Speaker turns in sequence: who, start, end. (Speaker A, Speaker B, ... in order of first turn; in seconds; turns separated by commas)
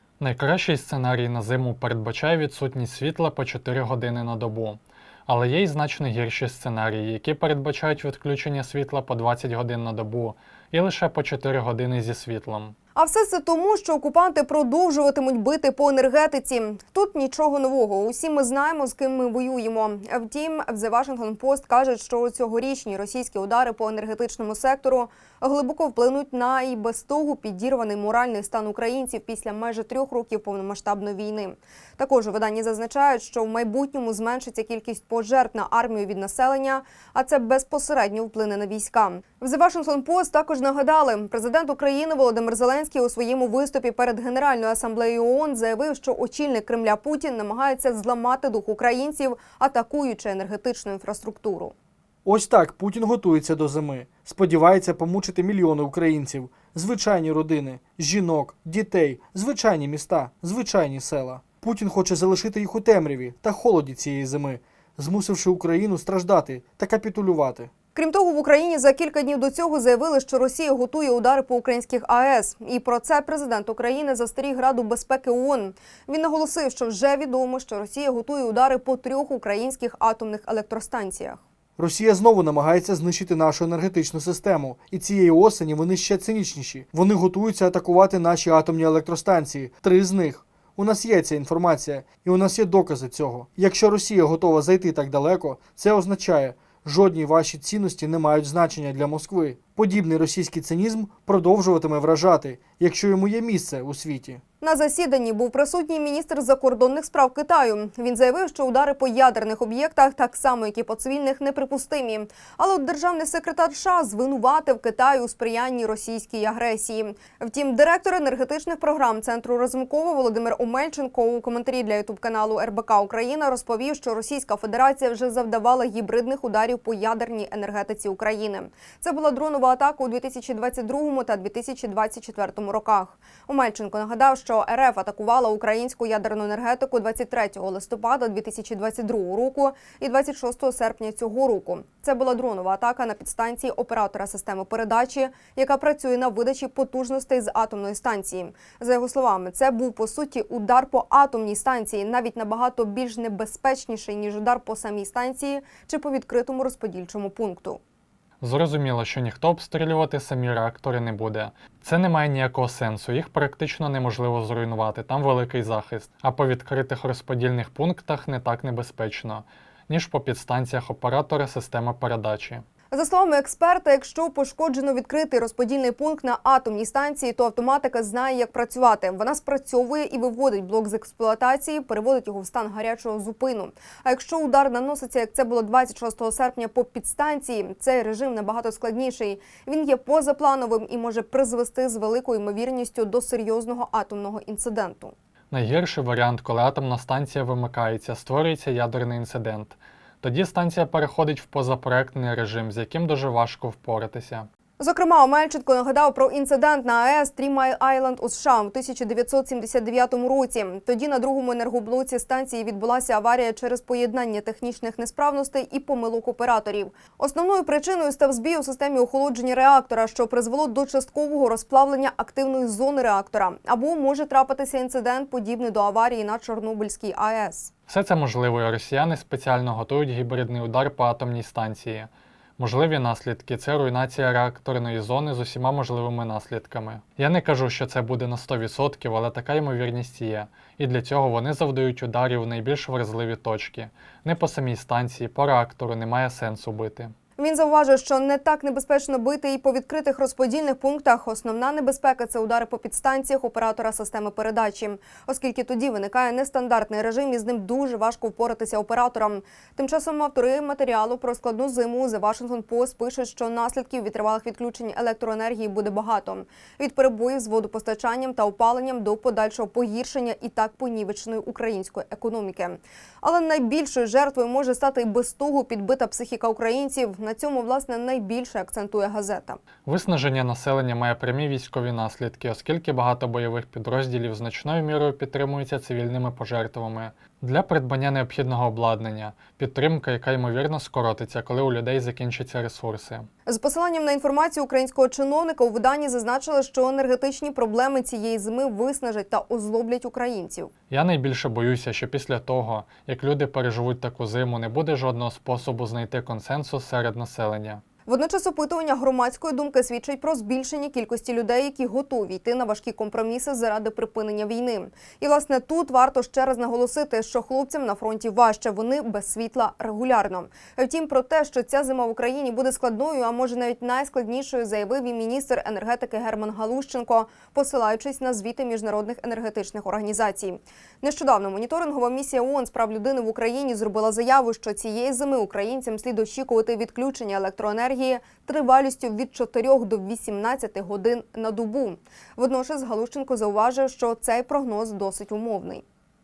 Speaker A: 0.2-12.8, Speaker B: 12.9-51.8, Speaker C: 52.2-67.7, Speaker B: 68.0-81.4, Speaker C: 81.8-104.4, Speaker B: 104.6-157.8, Speaker A: 158.4-172.6, Speaker B: 172.9-195.1, Speaker A: 195.5-204.5, Speaker B: 204.8-227.7, Speaker A: 227.9-247.1, Speaker B: 247.4-279.6, Speaker A: 279.9-293.3, Speaker B: 293.5-300.7, Speaker A: 300.9-307.8, Speaker B: 308.1-345.8